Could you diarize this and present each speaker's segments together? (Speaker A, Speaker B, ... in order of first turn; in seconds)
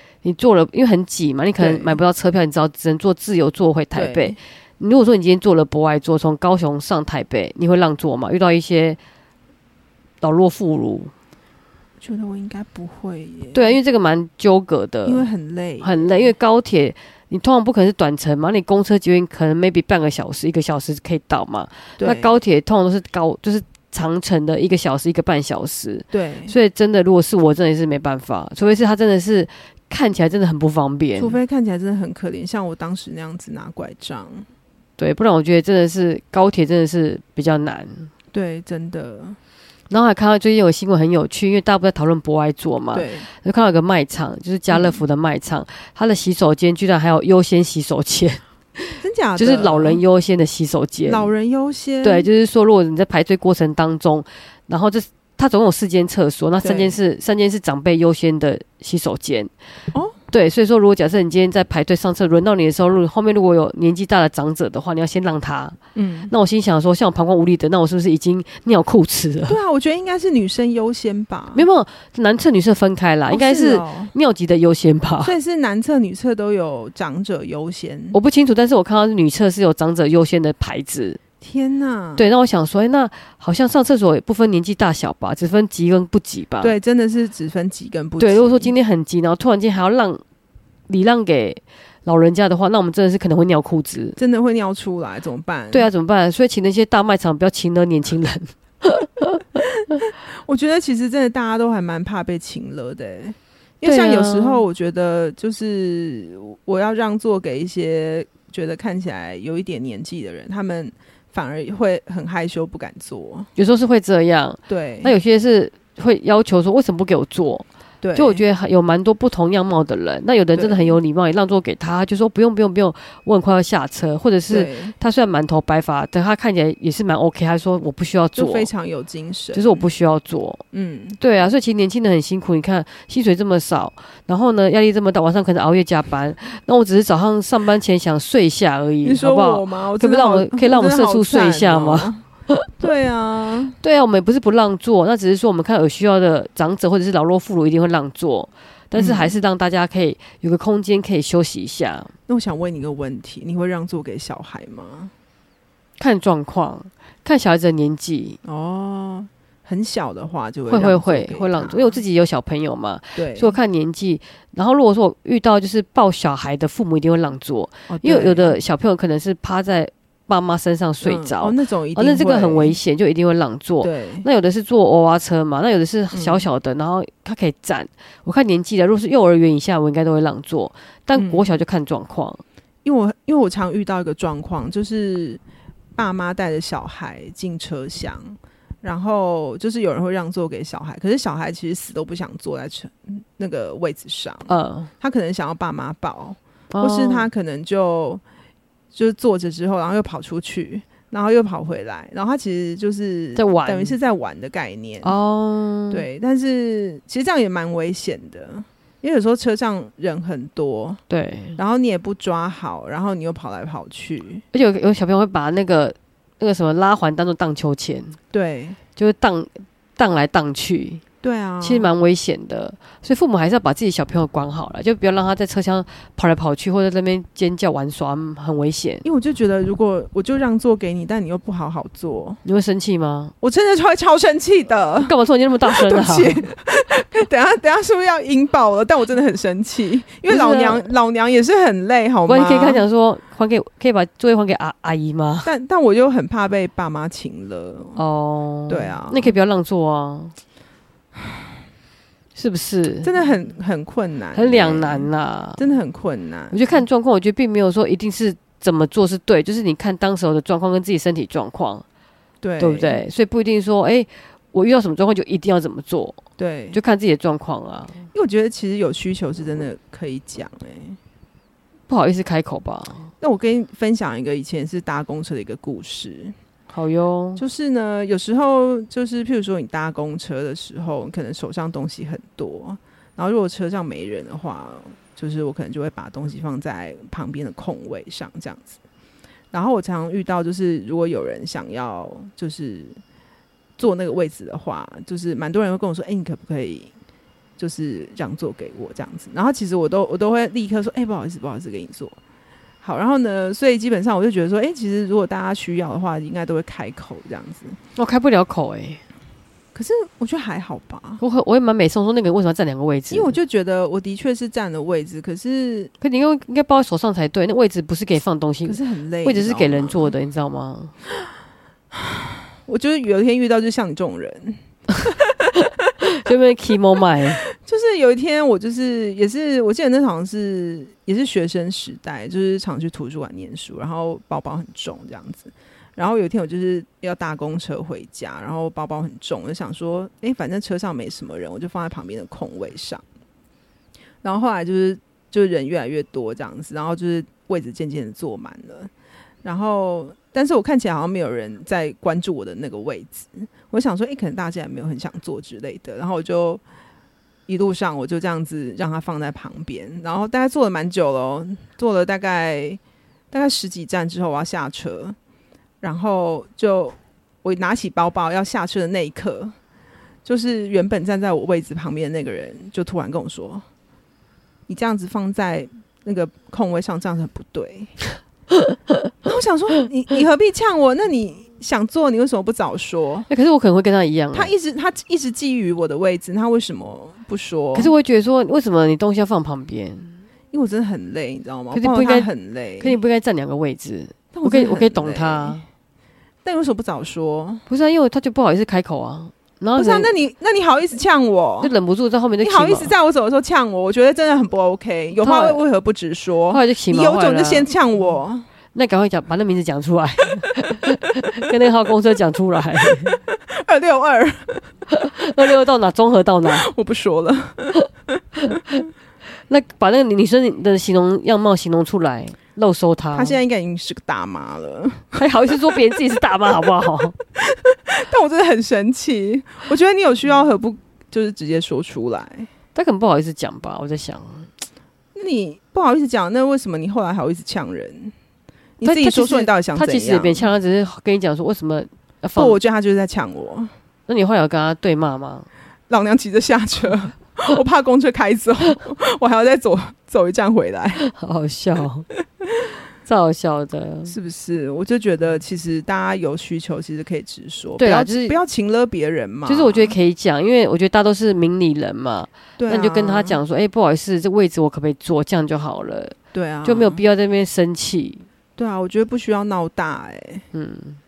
Speaker A: 0.2-9.0, 10.2-11.1, 13.5-15.3, 15.8-31.4, 35.0-38.1, 39.9-51.3, 52.0-59.5, 60.3-65.8, 66.3-69.6, 71.5-75.3, 78.1-81.2, 82.2-86.8, 88.2-90.2, 90.9-94.2, 95.7-99.6, 103.8-104.6, 113.6-128.7, 129.5-130.6, 131.2-142.7, 143.8-152.1, 156.0-158.4, 160.7-182.4, 194.5-194.9, 196.7-197.3, 203.4-203.9, 205.0-206.1, 211.1-211.6, 214.5-218.2, 219.0-221.0, 221.6-229.1, 232.4-233.3, 235.0-236.4, 240.3-240.9, 242.3-245.5, 248.0-250.3, 252.4-253.1, 254.3-255.6, 256.5-261.8, 262.6-266.2, 266.7-268.0, 271.9-273.1, 276.7-277.4, 308.0-309.0, 311.2-313.4, 316.0-320.9, 325.5-327.4, 378.5-378.9, 383.3-384.5, 387.8-390.1, 391.7-392.3, 392.8-395.6, 397.7-400.1, 401.6-402.9, 405.2-405.6, 406.5-407.7, 408.7-413.2, 414.9-416.7, 418.4-418.8, 419.5-423.4, 425.2-427.2, 432.8-434.5, 438.8-442.6, 444.1-445.5, 451.0-452.1, 453.1-454.1, 457.8-458.4, 459.5-468.2, 470.5-471.0
Speaker B: 1.6-2.0, 3.9-4.4, 12.0-13.8, 15.1-16.3, 22.0-22.3, 26.1-26.6, 31.2-34.5, 38.3-39.4, 42.9-43.3, 44.7-45.0, 49.0-50.0, 51.1-52.3, 56.6-57.0, 66.0-66.3, 69.5-71.7, 73.3-74.1, 75.2-78.2, 81.4-82.3, 86.6-88.7, 94.2-95.9, 100.0-113.5, 114.7-115.1, 118.0-118.4, 120.5-121.0, 124.5-124.9, 128.3-129.8, 130.7-131.2, 139.0-142.2, 142.8-143.8, 148.9-149.3, 152.3-155.1, 158.4-162.0, 163.2-163.6, 167.9-168.6, 171.0-172.8, 173.8-174.3, 176.1-176.5, 181.2-181.5, 182.8-185.4, 186.0-198.2, 198.9-205.1, 205.9-211.0, 211.6-214.4, 218.3-218.8, 221.2-221.9, 229.0-232.4, 233.4-242.8, 245.4-248.0, 248.7-249.3, 253.0-256.8, 262.4-263.0, 266.4-266.8, 268.1-271.0, 273.2-276.4, 277.4-288.8, 289.5-293.0, 293.8-296.9, 297.6-302.2, 302.8-307.8, 309.8-311.2, 313.1-315.9, 318.7-320.1, 321.9-325.5, 327.5-343.0, 344.2-348.9, 349.4-356.6, 357.5-362.8, 363.3-365.2, 365.8-369.6, 370.2-373.6, 374.7-377.9, 379.2-383.3, 384.3-387.9, 390.5-393.0, 394.3-395.6, 396.4-397.6, 399.8-401.7, 402.4-408.5, 413.1-414.7, 416.5-417.8, 423.1-426.0, 427.4-432.5, 435.1-438.1, 438.8-440.5, 442.4-443.7, 445.9-451.0, 454.1-459.9, 462.6-463.4, 466.3-467.0, 468.6-470.4